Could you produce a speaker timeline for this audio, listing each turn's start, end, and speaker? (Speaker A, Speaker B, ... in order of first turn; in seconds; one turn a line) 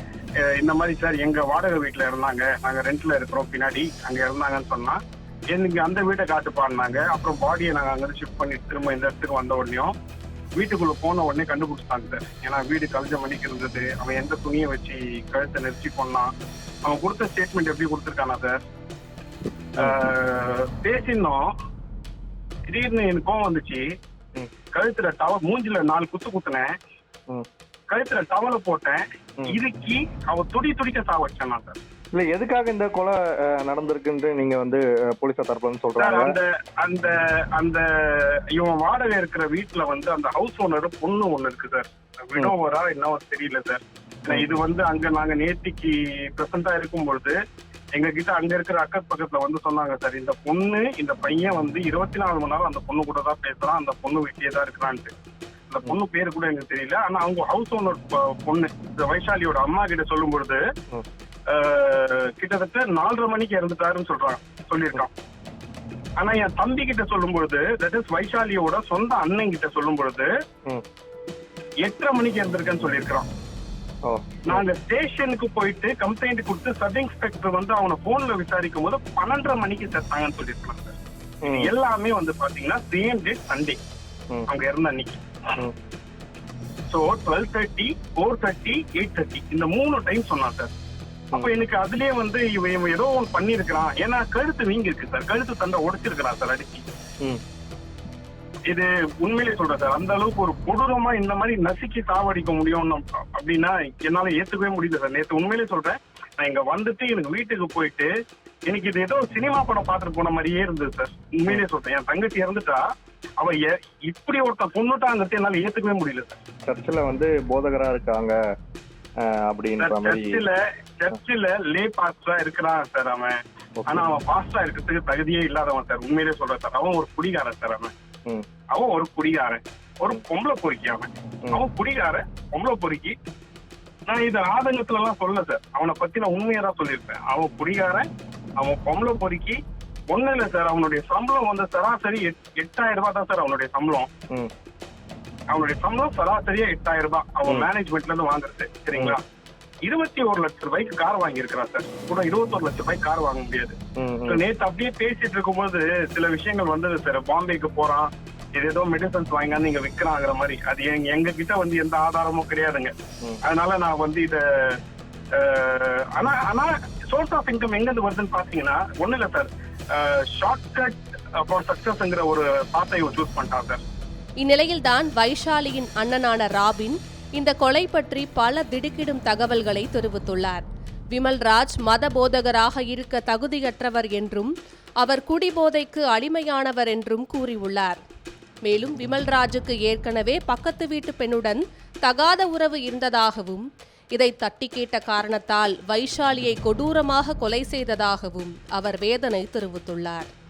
Speaker A: 0.5-5.0
Speaker A: 5.5-9.9
Speaker A: 10.6-16.3
Speaker A: 16.8-18.6
Speaker A: 19.8-21.5
Speaker A: 22.7-23.8
Speaker A: 24.7-26.7
Speaker A: 27.9-31.8
Speaker B: 32.1-36.4
Speaker A: 36.0-47.4
Speaker A: 48.0-55.1
Speaker A: 55.7-60.6
Speaker A: 61.5-65.1
Speaker A: 66.2-70.3
Speaker A: 71.8-73.3
Speaker B: 74.1-74.6
Speaker A: 74.5-81.0
Speaker B: 81.5-81.7
Speaker A: 81.5-83.8
Speaker A: 84.5-85.2
Speaker A: 86.9-90.7
Speaker A: 91.3-96.8
Speaker A: 98.7-108.1
Speaker A: 108.7-112.8
Speaker A: 113.4-116.4
Speaker B: 116.7-118.4
Speaker B: 119.2-120.4
Speaker A: 119.8-127.9
Speaker B: 123.8-124.1
Speaker A: 128.7-133.2
Speaker A: 134.1-138.0
Speaker A: 138.6-139.6
Speaker A: 140.1-144.1
Speaker A: 145.5-149.2
Speaker A: 149.8-162.9
Speaker B: 154.0-154.4
Speaker A: 163.4-164.8
Speaker A: 165.3-173.8
Speaker C: 174.4-180.6
Speaker C: 181.1-188.0
Speaker C: 188.7-200.3